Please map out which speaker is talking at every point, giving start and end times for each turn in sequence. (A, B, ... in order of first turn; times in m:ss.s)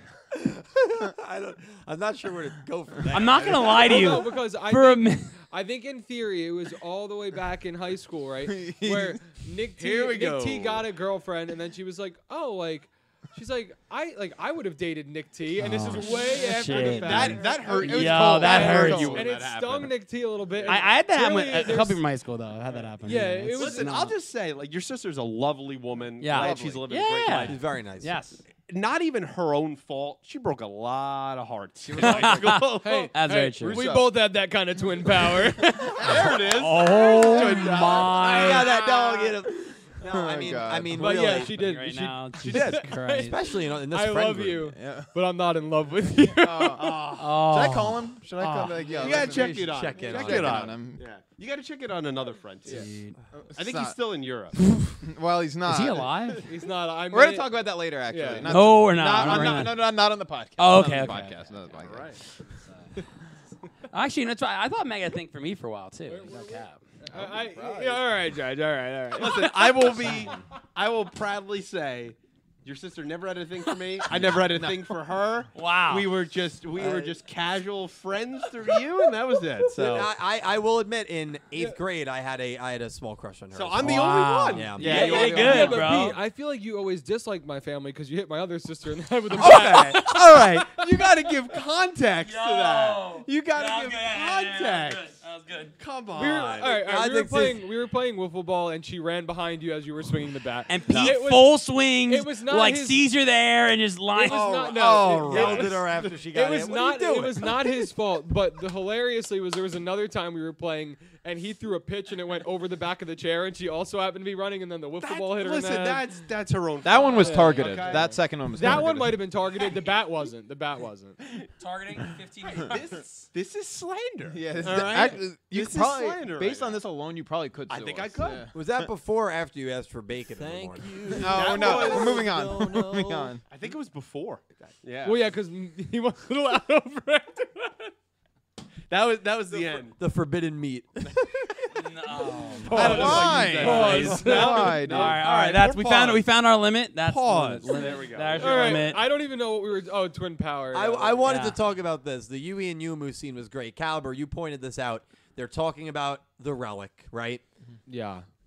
0:00.3-0:04.2 A
0:03.1-0:05.4 B
0:03.6-0:22.0 C
0:08.5-0:09.2 D
0:09.8-0:10.8 E
0:15.6-0:19.2 B
0:16.0-0:19.9 E
0:17.4-0:18.4 D
0:20.6-0:20.9 E
0:20.6-0:24.2 B
0:23.0-0:23.9 C
0:23.5-0:27.6 E
0:26.2-0:28.4 B
0:26.3-0:26.9 D
0:27.4-0:28.2 A
0:28.6-0:33.1 E
0:31.8-0:32.6 D
0:32.0-0:33.8 B
0:32.6-0:36.5 C
0:33.6-0:34.0 D
0:35.9-0:38.7 E
0:36.0-0:36.4 D
0:36.0-0:38.7 B
0:37.2-0:37.8 D
0:38.2-0:41.6 A
0:38.6-0:39.3 D
0:40.0-0:41.3 D
0:40.9-0:47.0 C
0:41.4-0:43.4 B
0:42.4-0:42.8 E
0:43.2-0:44.7 A
0:44.7-0:45.1 D
0:46.4-0:51.0 D
0:46.7-0:47.4 E
0:47.2-0:48.7 B
0:48.4-0:52.9 E
0:48.8-0:49.1 C
0:49.0-0:50.8 A
0:52.6-0:53.2 B
0:53.5-0:54.0 D
0:53.5-0:54.6 E
0:54.8-0:56.4 D
0:55.6-0:56.5 B
0:56.5-0:59.5 C
0:57.1-1:02.2 D
0:58.4-0:59.9 B
1:00.6-1:01.8 B
1:01.8-1:02.2 E
1:02.5-1:02.9 B
1:03.9-1:06.8 B
1:06.1-1:10.4 C
1:07.1-1:08.0 D
1:09.1-1:20.1 E
1:10.1-1:10.3 D
1:15.5-1:16.1 B
1:16.8-1:17.1 A
1:19.7-1:25.4 A
1:23.5-1:25.9 E
1:23.8-1:26.2 B
1:24.8-1:25.9 D
1:24.8-1:31.0 C
1:29.4-1:35.2 E
1:32.2-1:35.8 B
1:35.8-1:36.8 E
1:36.1-1:43.1 C
1:36.6-1:37.6 A
1:40.7-1:44.5 B
1:44.2-1:56.1 C
1:44.2-1:47.9 A
1:44.8-1:46.0 E
1:55.0-1:58.2 E
1:56.8-1:59.2 D
1:57.1-2:01.2 C
2:01.6-2:02.8 B
2:02.4-2:06.8 E
2:04.3-2:08.9 D
2:07.7-2:08.5 E
2:08.5-2:13.2 A
2:10.4-2:12.7 E
2:11.1-2:13.4 D
2:13.5-2:15.2 E
2:15.0-2:17.9 C
2:18.9-2:20.0 E
2:19.9-2:21.7 A
2:21.7-2:29.0 B
2:22.6-2:26.3 E
2:22.7-2:25.2 D
2:22.7-2:24.9 C
2:27.0-2:28.9 E
2:28.4-2:31.3 C
2:30.7-2:37.4 A
2:31.2-2:31.6 B
2:37.9-2:38.2 C